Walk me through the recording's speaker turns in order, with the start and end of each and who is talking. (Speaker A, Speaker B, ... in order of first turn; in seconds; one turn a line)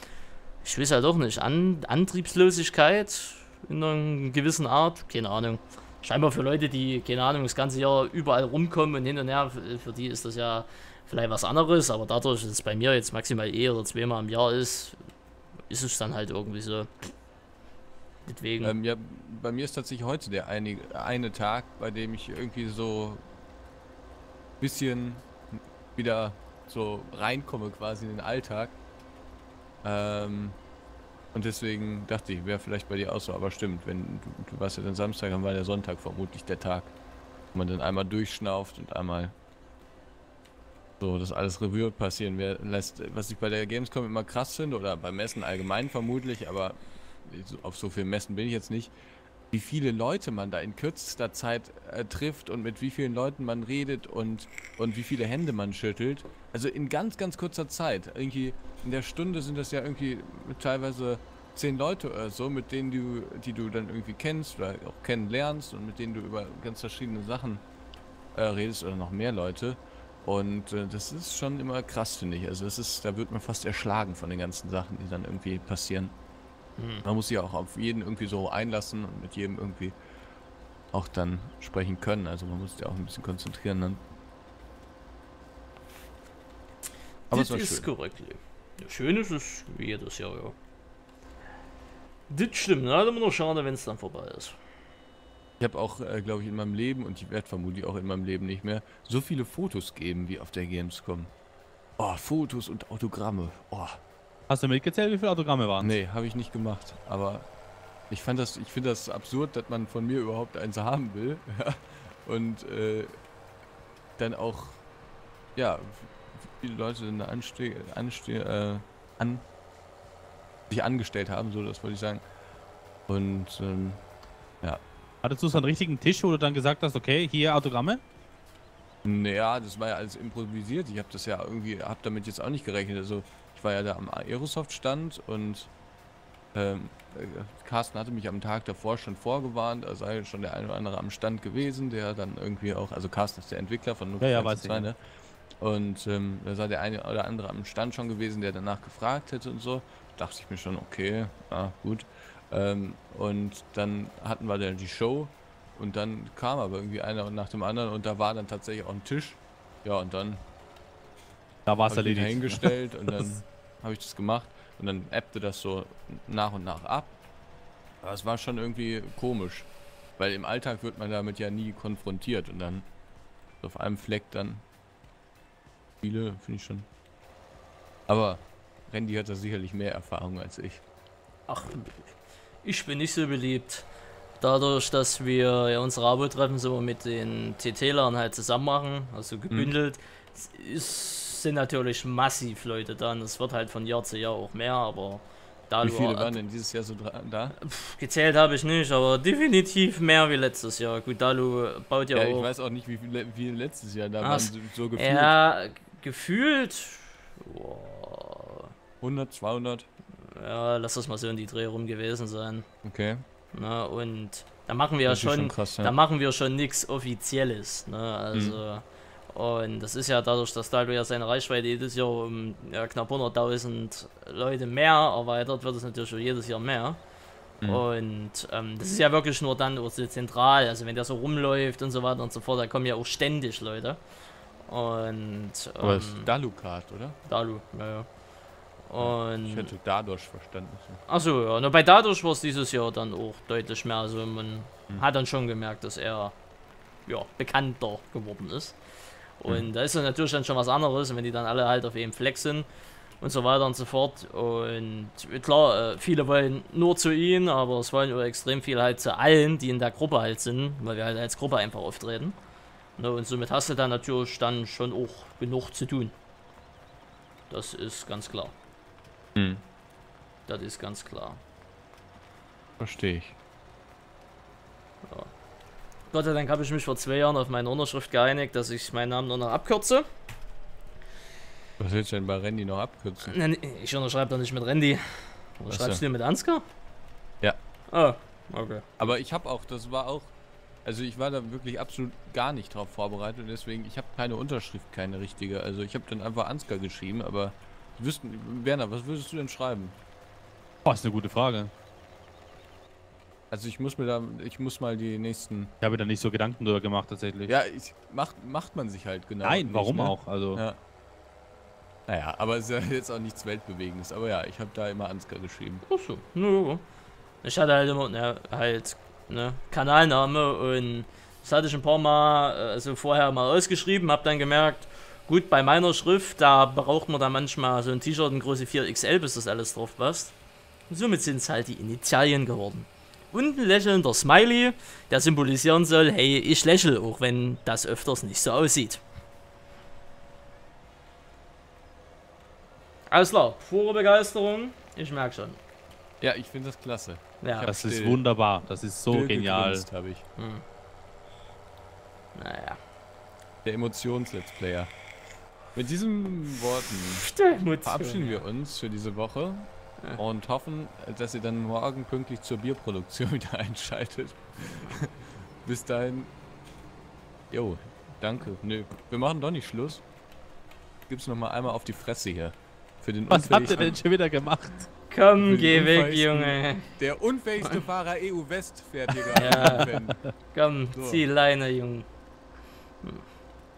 Speaker A: 0.6-15.0
Speaker A: 15.7-16.9
Speaker A: 18.3-18.8
Speaker B: 18.6-23.2
Speaker B: 24.6-25.4
Speaker B: 25.9-28.8
Speaker B: 29.8-30.6
Speaker B: 31.3-36.9
Speaker B: 37.5-39.3
Speaker B: 41.0-48.9
Speaker B: 49.5-67.6
Speaker B: 68.3-76.1
Speaker A: 76.8-77.0
Speaker B: 77.0-80.0
Speaker B: 80.9-84.0
Speaker B: 87.3-87.9
Speaker A: 87.3-90.5
Speaker A: 92.3-94.5
Speaker B: 95.6-101.3
Speaker B: 102.0-104.0
Speaker C: 104.5-105.9
Speaker B: 105.8-107.5
Speaker B: 108.1-113.1
Speaker B: 114.2-114.8
Speaker B: 115.5-119.5
Speaker B: 120.7-122.2
Speaker B: 123.1-124.0
Speaker C: 125.2-128.0
Speaker B: 129.0-135.7
Speaker B: 136.5-145.0
Speaker C: 144.2-144.9
Speaker B: 145.6-160.4
Speaker C: 161.7-163.2
Speaker B: 161.9-167.1
Speaker B: 168.0-172.9
Speaker B: 173.6-174.6
Speaker B: 176.0-176.9
Speaker B: 178.1-180.8
Speaker A: 181.5-182.1
Speaker A: 182.6-183.9
Speaker A: 184.4-196.4
Speaker B: 195.8-197.6
Speaker A: 197.6-202.5
Speaker B: 202.1-205.3
Speaker A: 204.2-208.7
Speaker B: 209.0-209.9
Speaker A: 210.3-212.7
Speaker B: 212.8-213.2
Speaker A: 213.5-227.0
Speaker B: 215.1-215.9
Speaker B: 218.3-218.6
Speaker A: 227.6-234.0
Speaker A: 234.7-236.3
Speaker B: 235.8-237.2
Speaker A: 237.3-238.1
Speaker A: 238.9-239.7
Speaker B: 239.0-241.0
Speaker A: 241.1-246.3
Speaker A: 247.1-248.8
Speaker A: 249.4-252.7
Speaker A: 253.2-262.4
Speaker A: 263.0-266.1
Speaker A: 267.5-268.5
Speaker B: 269.4-269.6
Speaker A: 270.5-271.4
Speaker B: 272.8-273.4
Speaker A: 276.1-280.0
Speaker B: 281.8-283.4
Speaker A: 283.2-286.6
Speaker B: 285.7-286.0
Speaker A: 287.9-288.9
Speaker B: 289.0-290.3
Speaker B: 290.9-300.0
Speaker C: 300.9-301.7
Speaker B: 303.5-305.7
Speaker C: 305.8-307.5
Speaker B: 307.5-310.8
Speaker C: 309.4-310.6
Speaker B: 312.1-315.8
Speaker A: 315.9-316.8
Speaker A: 317.4-330.3
Speaker A: 330.9-339.0
Speaker A: 343.1-345.6
Speaker B: 346.2-348.2
Speaker A: 347.4-347.7
Speaker C: 347.6-349.9
Speaker B: 349.1-350.2
Speaker A: 350.4-350.6
Speaker A: 352.4-352.8
Speaker B: 353.6-354.9
Speaker B: 355.7-357.2
Speaker A: 357.2-358.4
Speaker B: 357.8-366.3
Speaker B: 367.5-370.0
Speaker B: 371.1-374.0
Speaker C: 373.3-374.9
Speaker A: 375.1-376.9
Speaker B: 375.4-380.2
Speaker A: 379.4-379.9
Speaker A: 380.5-382.1
Speaker B: 380.9-381.2